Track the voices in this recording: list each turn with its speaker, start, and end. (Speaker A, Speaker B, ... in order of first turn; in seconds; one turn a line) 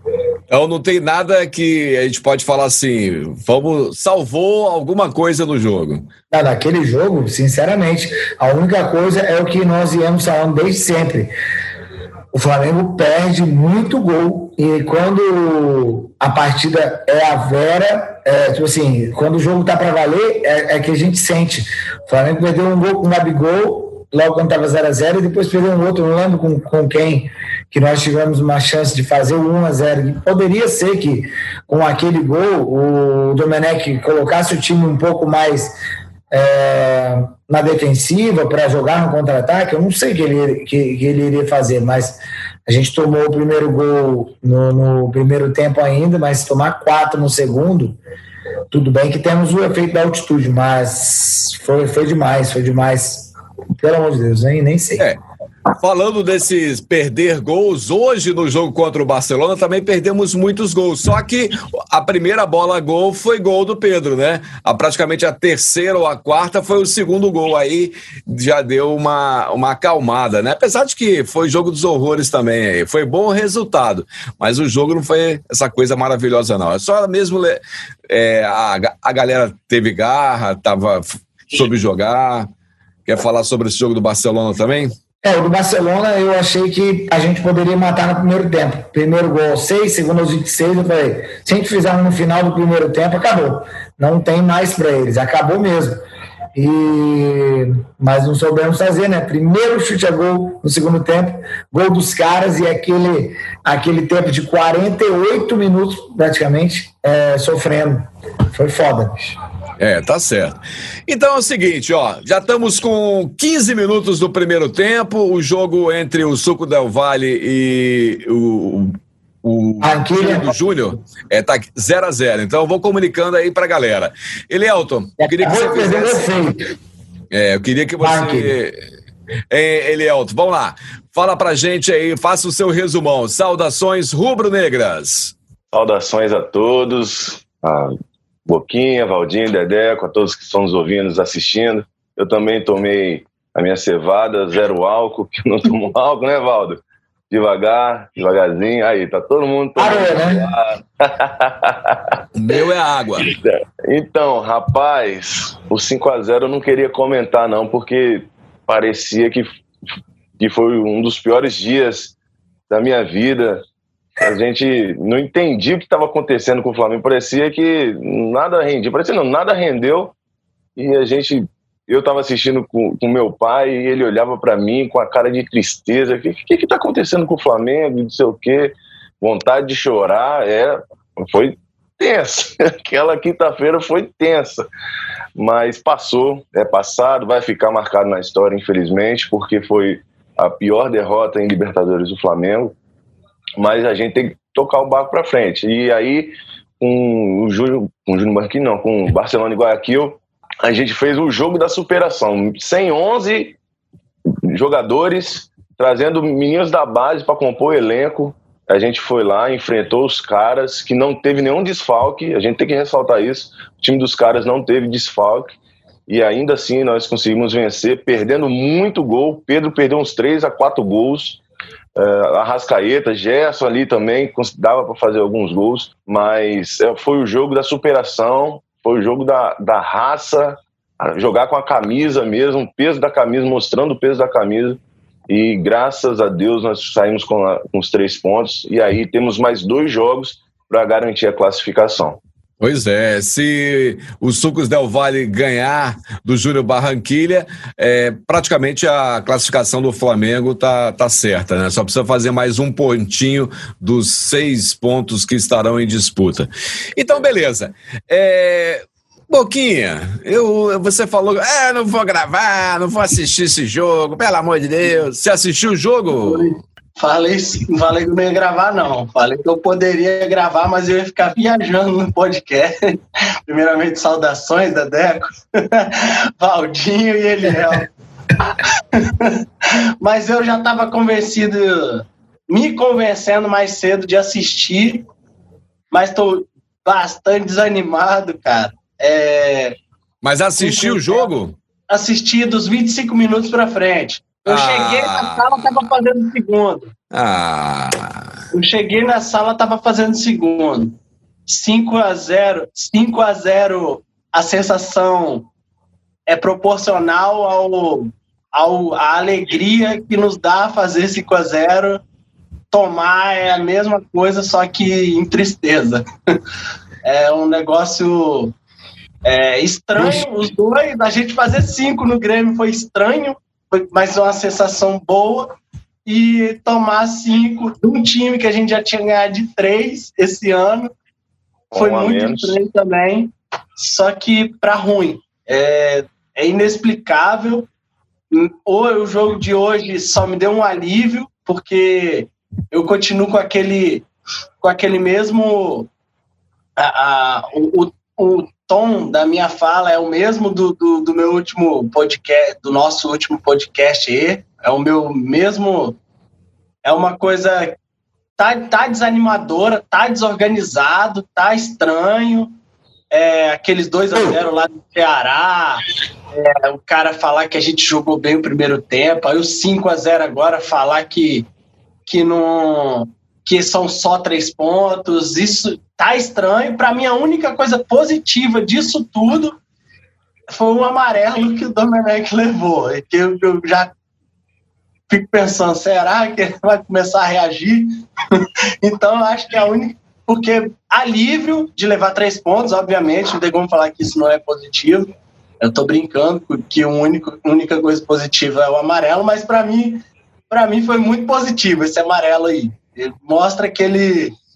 Speaker A: 0.5-6.1
Speaker B: 6.3-11.3
Speaker B: 12.3-35.8
Speaker B: 36.3-48.0
Speaker B: 48.7-55.1
Speaker A: 55.8-82.5
Speaker A: 83.1-85.0
Speaker B: 85.2-96.0
Speaker B: 96.5-109.4
Speaker A: 109.8-126.3
Speaker B: 119.8-120.6
Speaker B: 125.2-126.6
Speaker A: 127.3-128.8
Speaker B: 128.0-128.6
Speaker A: 129.5-135.3
Speaker C: 135.7-137.9
Speaker C: 138.5-146.8
Speaker C: 147.3-152.2
Speaker B: 149.8-150.5
Speaker A: 152.3-153.3
Speaker C: 153.3-159.5
Speaker C: 160.4-162.2
Speaker C: 162.7-163.6
Speaker C: 164.2-170.2
Speaker C: 170.8-184.7
Speaker C: 185.4-192.8
Speaker C: 193.6-203.6
Speaker C: 204.3-215.6
Speaker C: 216.1-221.4
Speaker C: 222.0-242.2
Speaker A: 242.6-266.4
Speaker D: 266.1-277.9
Speaker D: 278.6-279.4
Speaker D: 280.0-285.1
Speaker D: 285.9-289.8
Speaker A: 290.2-291.6
Speaker D: 290.6-291.3
Speaker D: 291.9-296.9
Speaker A: 294.5-295.5
Speaker A: 297.1-298.2
Speaker D: 298.5-305.5
Speaker D: 306.3-312.0
Speaker D: 312.7-316.1
Speaker D: 317.0-318.6
Speaker D: 319.2-330.9
Speaker B: 320.0-320.2
Speaker C: 331.7-332.5
Speaker D: 331.7-337.7
Speaker D: 338.3-344.1
Speaker D: 344.6-345.9
Speaker D: 346.8-356.0
Speaker D: 356.8-357.8
Speaker D: 358.4-362.5
Speaker D: 363.1-371.5
Speaker D: 372.1-379.6
Speaker D: 380.5-383.9
Speaker D: 385.1-395.1
Speaker D: 395.6-404.4